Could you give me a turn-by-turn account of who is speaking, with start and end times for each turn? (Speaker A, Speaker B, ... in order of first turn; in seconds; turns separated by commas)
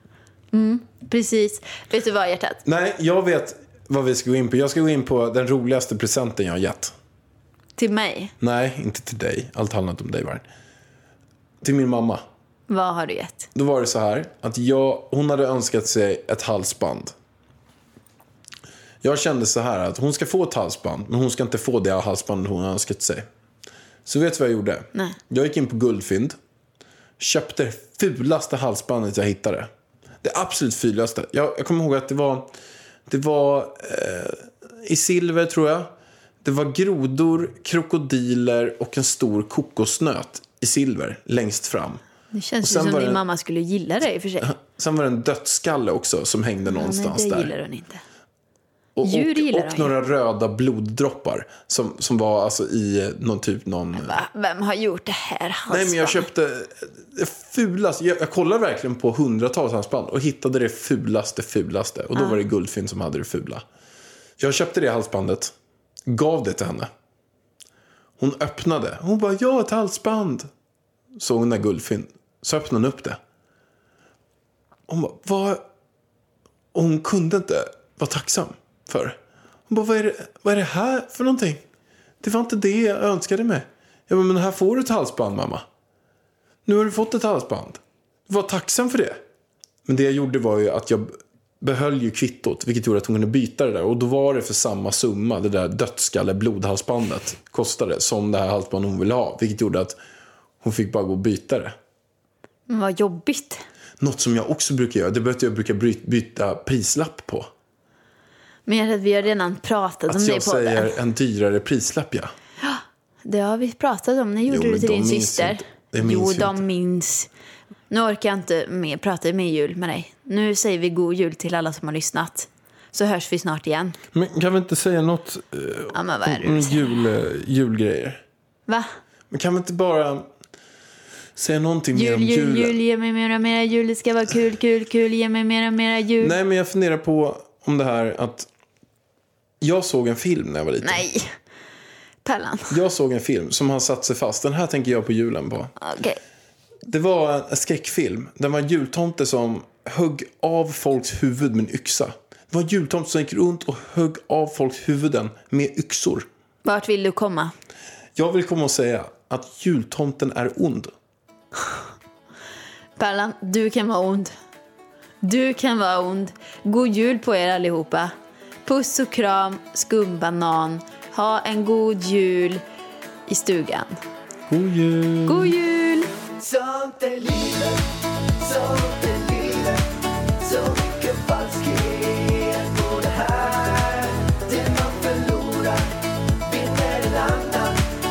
Speaker A: 0.5-2.6, Speaker B: 2.6-6.9, Speaker A: 7.8-8.3, Speaker B: 8.4-10.5, Speaker B: 11.6-12.2, Speaker A: 12.7-13.5, Speaker B: 13.6-17.1, Speaker B: 19.0-23.3, Speaker B: 24.1-26.4, Speaker B: 27.2-29.7, Speaker B: 30.2-32.5, Speaker B: 33.1-35.9, Speaker B: 36.4-42.0, Speaker A: 42.3-44.5, Speaker B: 42.6-43.2, Speaker B: 44.4-47.5, Speaker A: 46.7-48.0, Speaker B: 49.0-54.2, Speaker A: 49.0-49.9, Speaker A: 54.0-56.3, Speaker B: 55.7-63.6, Speaker A: 62.1-62.4, Speaker B: 64.4-65.5, Speaker B: 66.1-66.9, Speaker B: 68.2-70.5, Speaker B: 71.2-73.2, Speaker B: 74.9-75.7, Speaker B: 76.7-79.2, Speaker B: 79.7-81.6, Speaker B: 82.2-85.6, Speaker B: 86.7-89.2, Speaker B: 89.8-100.0, Speaker B: 100.6-101.7, Speaker A: 102.7-103.6, Speaker B: 104.0-107.5, Speaker A: 108.7-110.9, Speaker B: 110.1-112.3, Speaker A: 112.6-117.3, Speaker B: 114.5-116.6, Speaker A: 117.9-124.0, Speaker B: 124.1-128.2, Speaker A: 125.9-126.9, Speaker B: 129.3-130.3, Speaker B: 131.4-132.8, Speaker A: 131.9-136.3, Speaker B: 136.2-138.5, Speaker B: 139.6-141.0, Speaker A: 140.8-141.3, Speaker A: 142.2-142.8, Speaker B: 142.7-145.7, Speaker A: 145.8-146.2, Speaker B: 146.9-156.3, Speaker A: 156.7-157.5, Speaker B: 158.2-160.9, Speaker A: 163.0-164.3, Speaker A: 165.2-168.1, Speaker A: 168.7-172.6, Speaker A: 173.3-174.0, Speaker B: 174.5-175.5, Speaker A: 175.3-176.1, Speaker C: 176.4-177.8, Speaker C: 178.4-179.9, Speaker C: 180.4-185.9, Speaker C: 186.4-187.8